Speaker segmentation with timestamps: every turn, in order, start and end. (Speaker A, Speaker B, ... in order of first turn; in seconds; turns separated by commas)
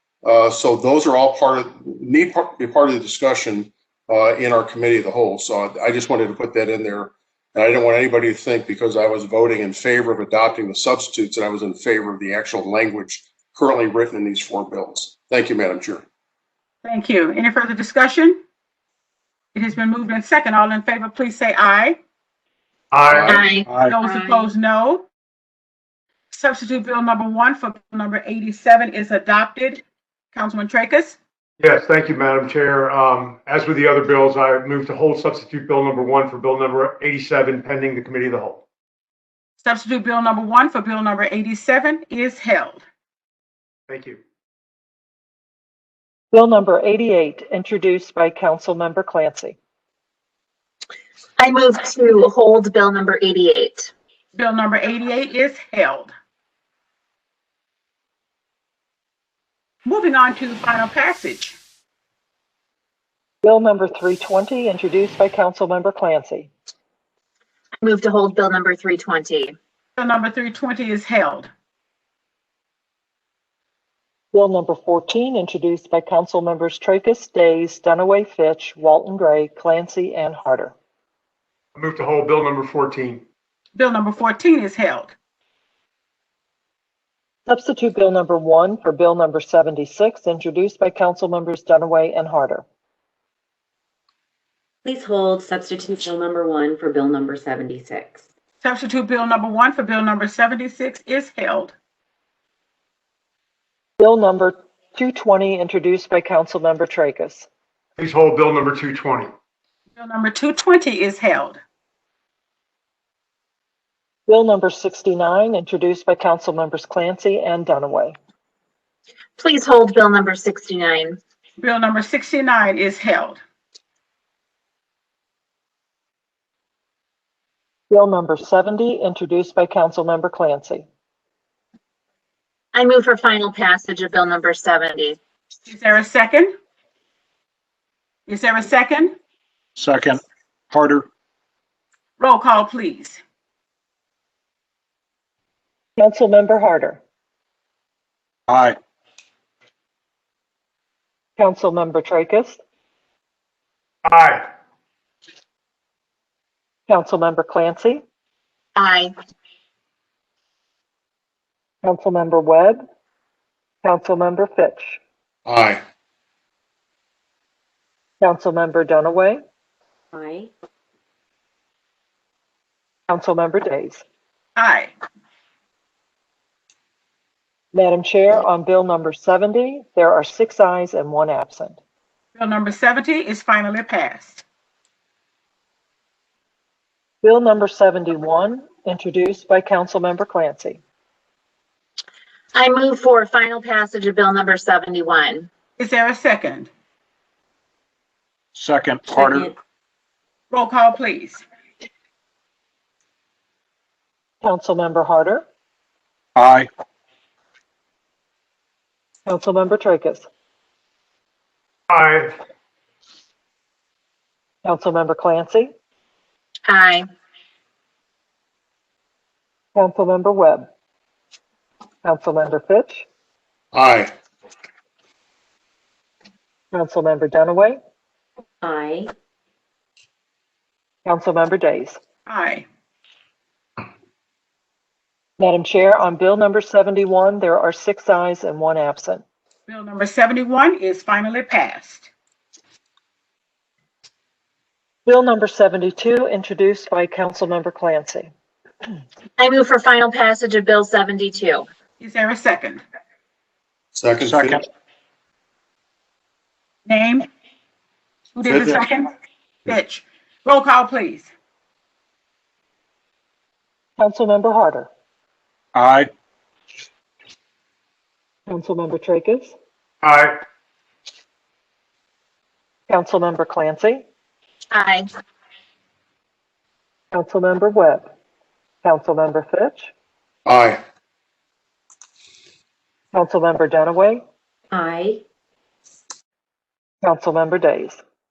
Speaker A: 0.2-16.1, Speaker B: 16.8-18.4, Speaker B: 19.6-22.0, Speaker C: 22.9-23.4, Speaker A: 23.1-23.5, Speaker D: 23.3-24.5, Speaker E: 23.7-23.9, Speaker B: 23.9-25.1, Speaker B: 26.3-31.2, Speaker C: 31.6-38.6, Speaker B: 39.6-42.8, Speaker C: 43.9-44.2, Speaker F: 46.3-49.6, Speaker D: 51.4-53.9, Speaker B: 54.3-56.1, Speaker B: 59.9-61.6, Speaker F: 63.4-66.5, Speaker D: 67.8-69.5, Speaker B: 70.0-71.5, Speaker F: 74.3-80.7, Speaker C: 81.8-83.2, Speaker B: 83.8-85.2, Speaker F: 87.5-92.7, Speaker G: 94.8-98.2, Speaker B: 98.6-101.8, Speaker F: 104.0-107.5, Speaker C: 108.0-109.3, Speaker B: 110.0-111.6, Speaker F: 114.3-118.2, Speaker D: 119.4-121.2, Speaker B: 121.6-123.4, Speaker F: 127.9-130.9, Speaker D: 132.7-135.2, Speaker B: 135.7-136.5, Speaker B: 138.3-139.2, Speaker E: 139.8-141.1, Speaker B: 142.2-143.2, Speaker F: 146.0-147.0, Speaker E: 148.5-148.8, Speaker F: 151.4-152.6, Speaker C: 154.1-154.5, Speaker F: 156.9-158.0, Speaker D: 158.8-159.1, Speaker F: 161.8-162.8, Speaker F: 163.8-165.0, Speaker A: 165.5-165.8, Speaker F: 168.2-169.4, Speaker G: 170.1-170.5, Speaker F: 173.1-174.0, Speaker B: 174.6-174.9, Speaker F: 177.7-181.8, Speaker B: 182.3-184.4, Speaker F: 187.2-190.8, Speaker D: 192.6-195.5, Speaker B: 195.8-196.7, Speaker E: 198.5-199.5, Speaker G: 199.1-199.5, Speaker B: 200.5-201.4, Speaker F: 204.4-205.4, Speaker E: 206.4-206.7, Speaker F: 209.3-210.3, Speaker C: 211.9-212.3, Speaker F: 214.7-215.7, Speaker D: 216.7-217.1, Speaker F: 219.8-220.7, Speaker F: 222.0-223.1, Speaker A: 223.7-224.1, Speaker F: 226.7-227.8, Speaker G: 228.6-229.1, Speaker F: 231.1-232.0, Speaker B: 232.3-232.7, Speaker F: 235.4-239.2, Speaker B: 239.7-242.1, Speaker F: 245.1-248.3, Speaker D: 249.4-251.7, Speaker B: 252.0-252.8, Speaker A: 253.9-254.6, Speaker E: 254.2-254.6, Speaker B: 256.9-257.3, Speaker B: 258.4-259.1, Speaker A: 258.5-258.8, Speaker B: 259.7-261.3, Speaker F: 264.0-264.9, Speaker E: 265.8-266.1, Speaker F: 268.5-269.6, Speaker C: 270.0-270.4, Speaker F: 272.9-274.1, Speaker D: 274.7-275.1, Speaker F: 277.1-278.1, Speaker F: 278.8-279.9, Speaker A: 280.5-280.8, Speaker F: 283.1-284.2, Speaker G: 284.7-285.2, Speaker F: 287.0-288.0